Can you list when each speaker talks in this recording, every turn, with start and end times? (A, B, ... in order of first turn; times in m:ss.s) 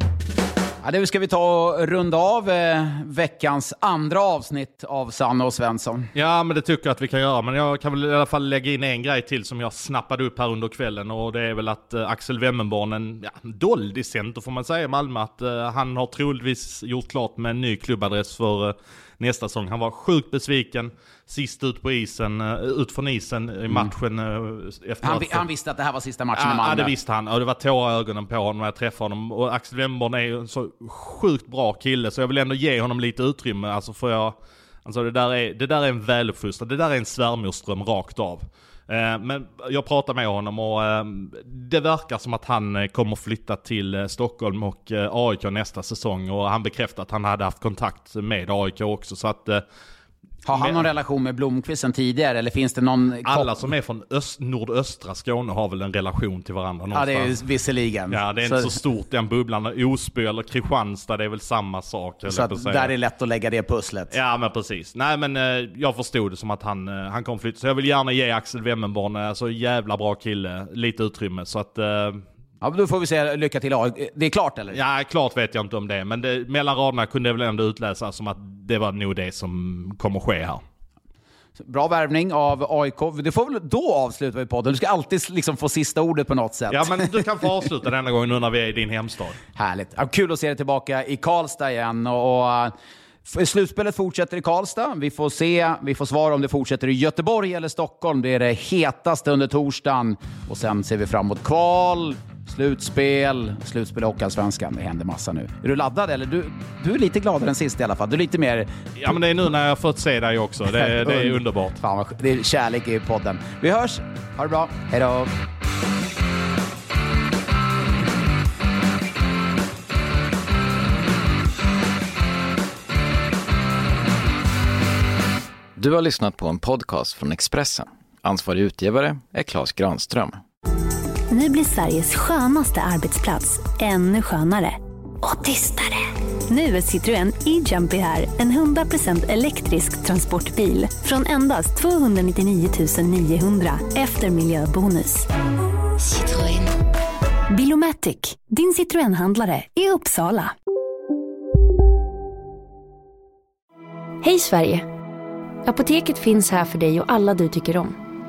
0:00.8-0:06.1 A
0:06.1-0:25.4 B
0:25.0-0:26.9 A
0:26.3-0:49.6 B
0:50.4-0:53.5 A
0:50.5-0:50.9 B
0:53.2-0:57.3 B
0:56.9-0:58.8 A
0:58.1-1:02.9 B
1:02.2-1:04.1 A
1:04.1-1:12.2 B
1:12.6-1:14.8 A
1:14.7-1:20.6 B
1:21.6-1:27.2 A
1:26.7-1:29.4 B
1:29.6-1:49.2 A
1:49.0-1:51.8 B
1:50.7-1:55.3 A
2:05.8-2:10.4 C
2:11.3-2:25.3 D
2:26.0-2:26.6 D
2:27.5-2:30.5 D
2:34.2-2:34.8 E
2:35.6-2:38.0 E